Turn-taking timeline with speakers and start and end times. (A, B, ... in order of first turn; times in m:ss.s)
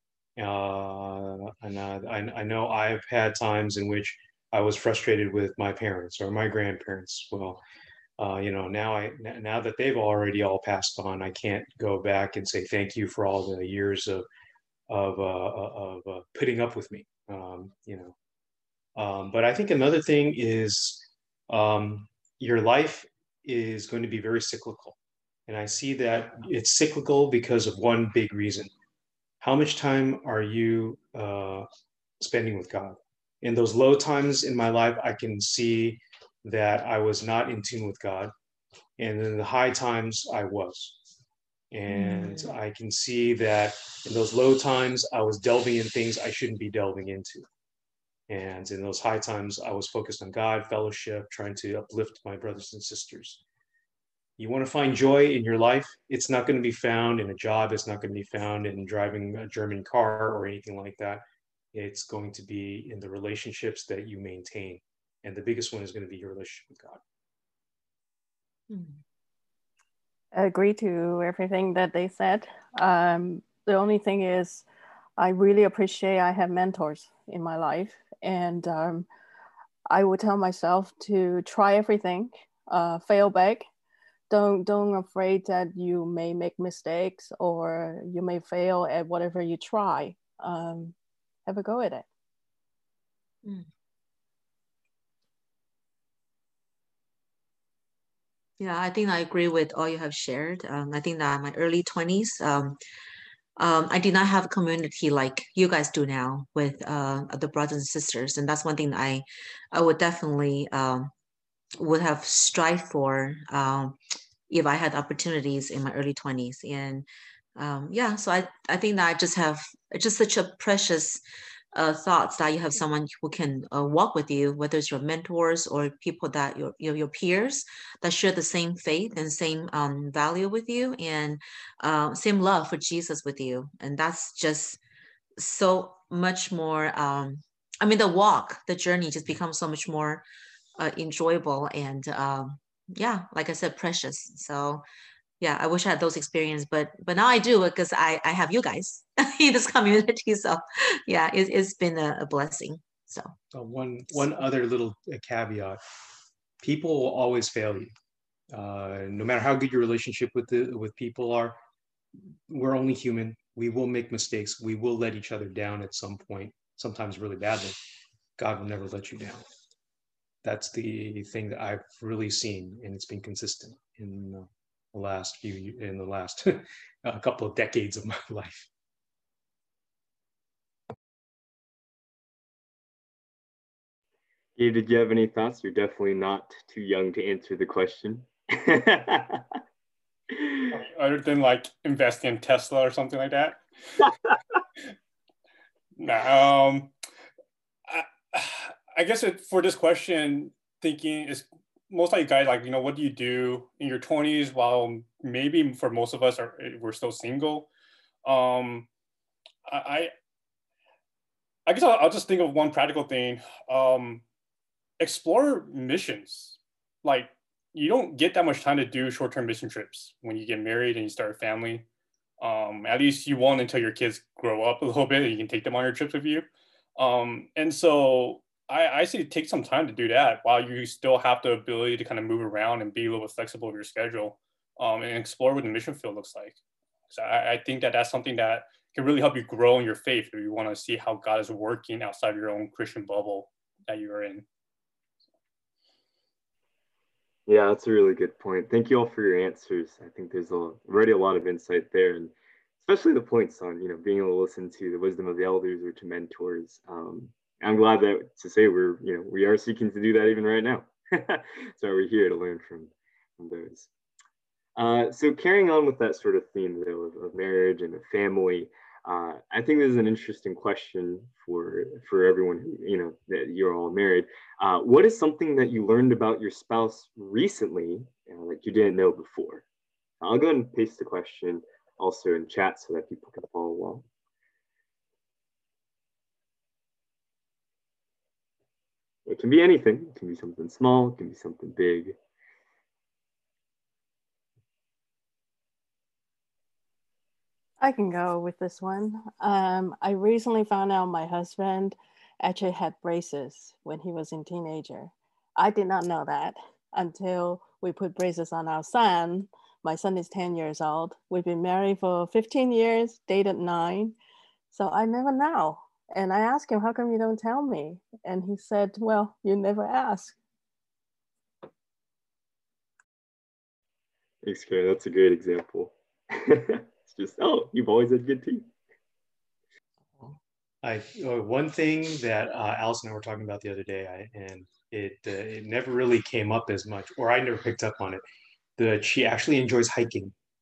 0:00.4-0:07.6 A
0:08.2-0:14.3 A
0:14.9-0:18.2 A
0:19.0-0:28.7 A
0:29.4-0:31.7 A
0:32.2-0:38.3 A
0:39.0-0:41.0 A
0:41.7-0:47.5 A
0:41.9-0:42.5 B
0:48.3-0:53.4 A
0:54.4-1:07.0 A
1:08.7-1:09.0 B
1:10.3-1:14.7 C
1:15.2-1:19.1 C
1:19.9-1:23.7 C
1:24.3-1:30.9 C
1:31.5-1:32.1 C
1:38.6-1:42.8 B
1:43.6-1:51.1 B
1:51.8-1:54.0 B
1:54.5-2:01.2 B
2:01.7-2:14.8 B
2:15.4-2:20.2 B
2:20.8-2:24.8 B
2:25.4-2:33.3 B
2:33.5-2:35.8 A
2:36.6-2:37.9 A
2:38.5-2:41.6 A
2:42.5-2:47.8 A
2:48.4-2:49.4 A
2:50.4-2:58.7 A
3:04.6-3:09.4 D
3:10.3-3:10.7 D
3:10.8-3:14.0 E
3:16.0-3:16.9 E
3:17.9-3:27.7 E
3:28.2-3:28.9 E
3:29.7-3:30.1 E
3:31.7-3:34.2 E
3:35.0-3:41.9 E
3:42.4-3:46.5 E
3:47.0-3:56.6 E
3:57.1-4:04.4 E
4:07.5-4:23.9 D
4:24.8-4:39.6 D
4:40.2-4:44.1 D
4:49.3-4:52.2 D
4:57.8-5:14.2 C
5:14.7-5:20.4 C
5:24.4-5:28.7 D
5:30.8-5:38.2 A
5:38.8-5:40.4 A